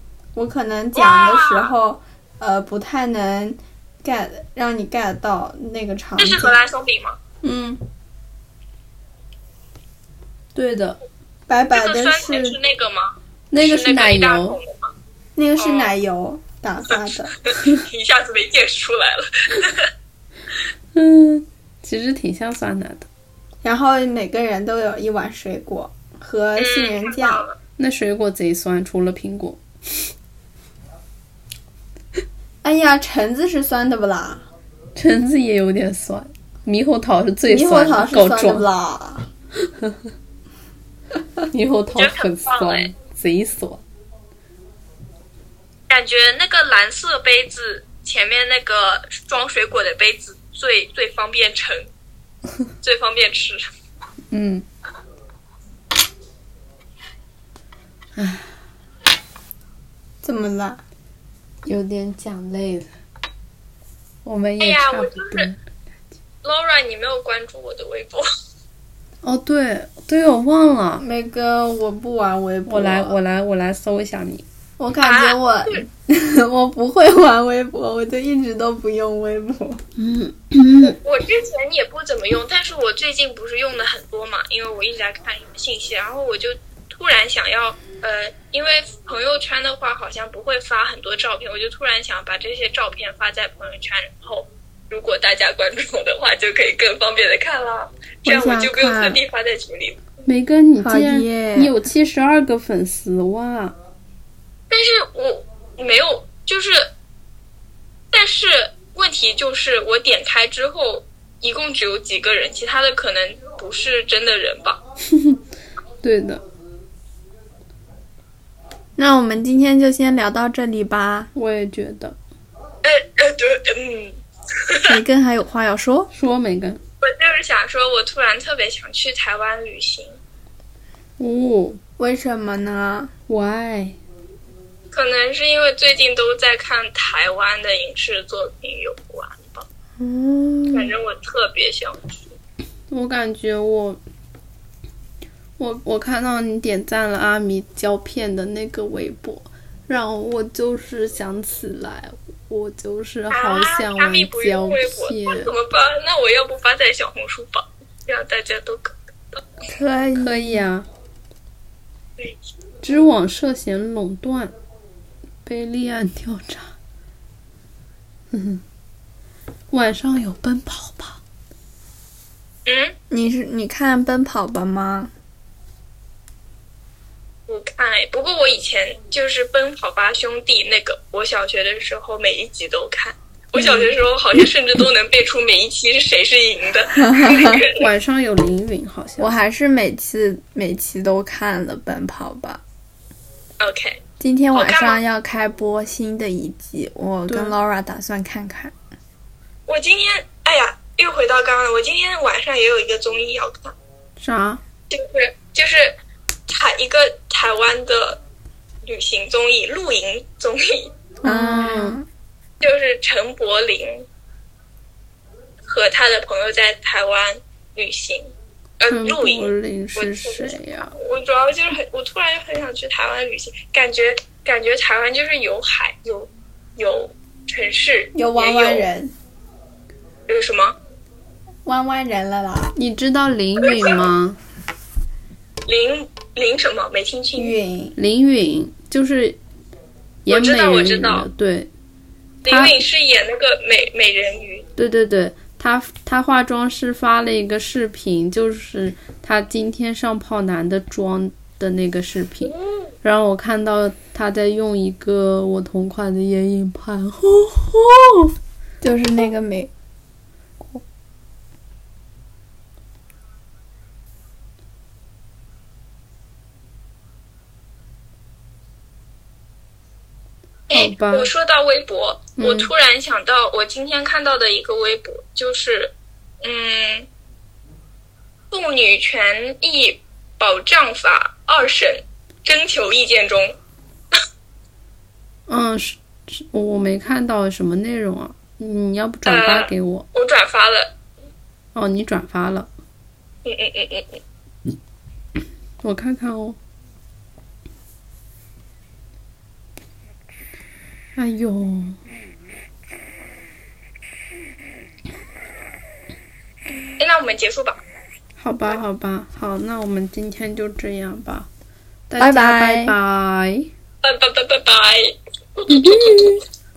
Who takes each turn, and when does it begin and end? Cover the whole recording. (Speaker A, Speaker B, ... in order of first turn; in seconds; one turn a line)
Speaker A: 0.3-6.6
Speaker B: 0.9-1.7
Speaker B: 6.2-7.2
Speaker C: 7.4-7.8
Speaker C: 10.5-11.0
Speaker A: 11.5-12.6
Speaker B: 11.7-14.9
Speaker C: 13.5-14.6
Speaker A: 15.3-17.4
Speaker B: 15.6-15.9
Speaker B: 17.4-19.9
Speaker C: 20.9-23.1
Speaker A: 23.6-27.4
Speaker B: 26.6-27.6
Speaker C: 27.8-30.1
Speaker A: 32.6-34.4
Speaker C: 35.0-38.6
Speaker A: 37.5-39.2
Speaker C: 39.6-40.1
Speaker C: 41.5-43.8
Speaker B: 41.9-42.9
Speaker B: 45.9-51.9
Speaker B: 52.8-53.7
Speaker C: 54.3-54.6
Speaker C: 58.1-58.5
Speaker A: 60.2-60.8
Speaker C: 61.6-62.9
Speaker C: 64.2-65.6
Speaker B: 64.6-65.5
Speaker B: 66.4-68.2
Speaker C: 69.2-71.0
Speaker A: 71.0-73.2
Speaker C: 72.7-74.4
Speaker A: 74.8-79.8
Speaker B: 75.0-75.8
Speaker C: 80.0-81.0
Speaker B: 80.9-100.0
Speaker C: 98.2-99.2
Speaker C: 100.2-103.8
Speaker A: 100.8-101.7
Speaker B: 104.7-106.9
Speaker B: 108.1-114.8
Speaker C: 116.0-116.4
Speaker A: 119.0-121.3
Speaker C: 121.3-122.2
Speaker B: 122.8-124.9
Speaker A: 124.8-126.1
Speaker C: 126.1-126.8
Speaker B: 127.0-130.2
Speaker C: 131.2-131.8
Speaker A: 132.0-133.1
Speaker C: 133.3-134.0
Speaker B: 134.9-139.7
Speaker C: 140.0-140.9
Speaker B: 140.7-142.3
Speaker C: 142.9-144.0
Speaker C: 145.6-155.5
Speaker B: 153.3-159.5
Speaker A: 159.7-160.6
Speaker C: 160.2-160.9
Speaker C: 162.8-164.5
Speaker C: 165.4-166.7
Speaker C: 168.3-168.6
Speaker C: 169.7-171.2
Speaker B: 172.7-172.9
Speaker A: 173.1-175.1
Speaker B: 177.5-187.9
Speaker A: 187.0-187.6
Speaker C: 187.7-189.4
Speaker A: 189.2-192.6
Speaker B: 193.6-194.0
Speaker A: 194.2-198.7
Speaker B: 194.5-195.0
Speaker C: 197.3-197.6
Speaker B: 199.7-203.7
Speaker C: 204.2-204.6
Speaker B: 204.9-205.9
Speaker B: 206.5-208.2
Speaker B: 208.8-210.9
Speaker C: 211.2-212.0
Speaker A: 211.2-212.1
Speaker B: 212.6-214.1
Speaker B: 215.7-228.9
Speaker C: 218.9-220.9
Speaker A: 228.1-229.1
Speaker B: 230.3-230.8
Speaker A: 231.7-232.8
Speaker C: 232.8-234.4
Speaker B: 233.6-234.0
Speaker B: 235.7-237.6
Speaker A: 237.3-237.9
Speaker C: 238.0-239.4
Speaker C: 240.2-241.7
Speaker B: 240.3-241.2
Speaker B: 242.4-244.7
Speaker C: 242.5-242.8
Speaker C: 244.8-258.3
Speaker A: 258.8-259.7
Speaker B: 270.7-277.1
Speaker C: 270.7-271.3
Speaker C: 272.4-272.7
Speaker B: 278.5-283.6
Speaker C: 285.5-290.1
Speaker B: 289.2-290.9
Speaker C: 291.7-292.7
Speaker B: 293.4-294.2
Speaker C: 295.8-296.6
Speaker C: 301.1-302.0
Speaker B: 307.0-307.8
Speaker C: 308.4-311.5
Speaker C: 312.1-313.7
Speaker A: 312.2-312.9
Speaker B: 314.0-316.4
Speaker C: 315.7-316.4